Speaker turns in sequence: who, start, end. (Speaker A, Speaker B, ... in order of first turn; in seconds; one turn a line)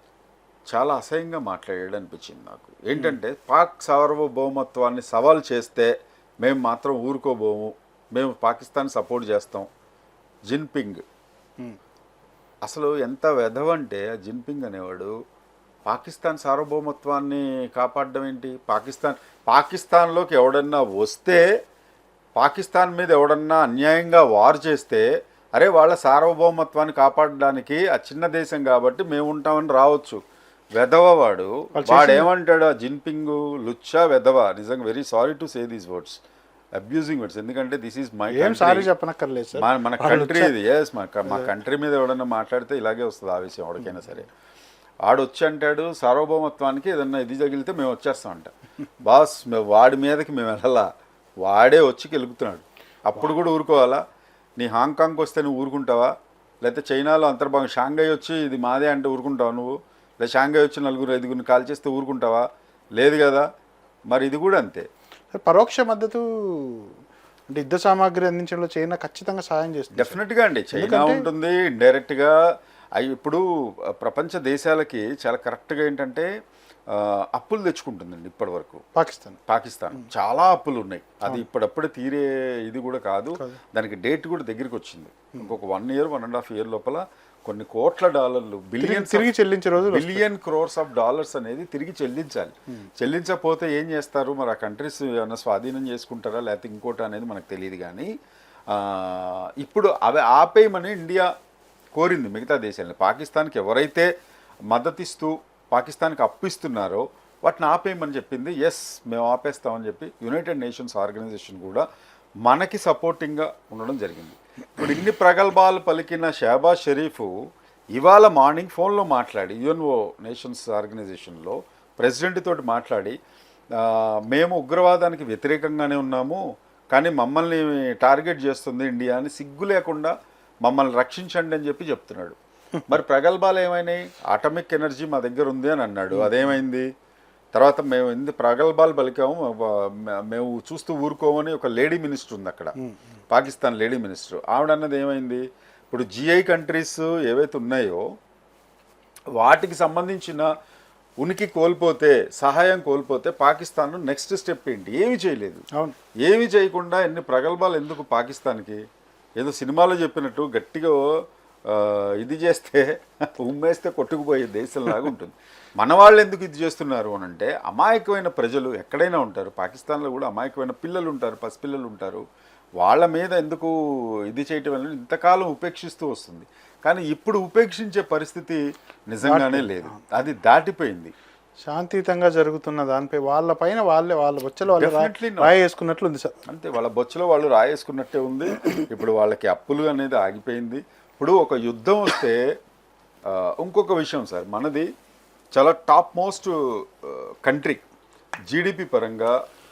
Speaker A: 0.7-9.7
Speaker A: 10.5-11.0
Speaker A: 12.6-15.1
Speaker A: 15.8-21.5
Speaker A: 22.4-30.2
Speaker A: 30.7-36.2
Speaker B: 31.8-32.3
Speaker A: 36.8-38.9
Speaker B: 38.3-40.5
Speaker A: 39.5-44.3
Speaker A: 45.0-48.5
Speaker A: 49.0-50.9
Speaker A: 51.4-54.0
Speaker A: 54.6-63.5
Speaker A: 64.1-64.9
Speaker B: 65.3-66.9
Speaker B: 67.5-70.2
Speaker A: 69.9-72.3
Speaker B: 70.7-71.2
Speaker A: 73.0-76.3
Speaker A: 76.9-78.8
Speaker B: 78.9-79.4
Speaker A: 79.5-89.3
Speaker B: 88.8-90.2
Speaker A: 89.8-98.1
Speaker A: 98.7-101.3
Speaker A: 101.9-104.1
Speaker A: 104.7-111.8
Speaker A: 112.4-117.3
Speaker A: 117.9-123.2
Speaker A: 123.8-130.1
Speaker A: 130.6-132.3
Speaker A: 132.9-136.9
Speaker B: 136.1-136.5
Speaker A: 137.5-142.7
Speaker A: 143.3-148.0
Speaker A: 149.3-150.5
Speaker A: 151.2-155.6
Speaker A: 156.2-158.8
Speaker A: 159.4-161.0
Speaker A: 161.7-172.2
Speaker A: 172.8-181.1
Speaker B: 179.2-179.9
Speaker B: 181.7-186.3
Speaker A: 184.7-185.5
Speaker A: 186.5-192.4
Speaker A: 193.3-194.9
Speaker A: 195.5-197.8
Speaker A: 198.5-199.3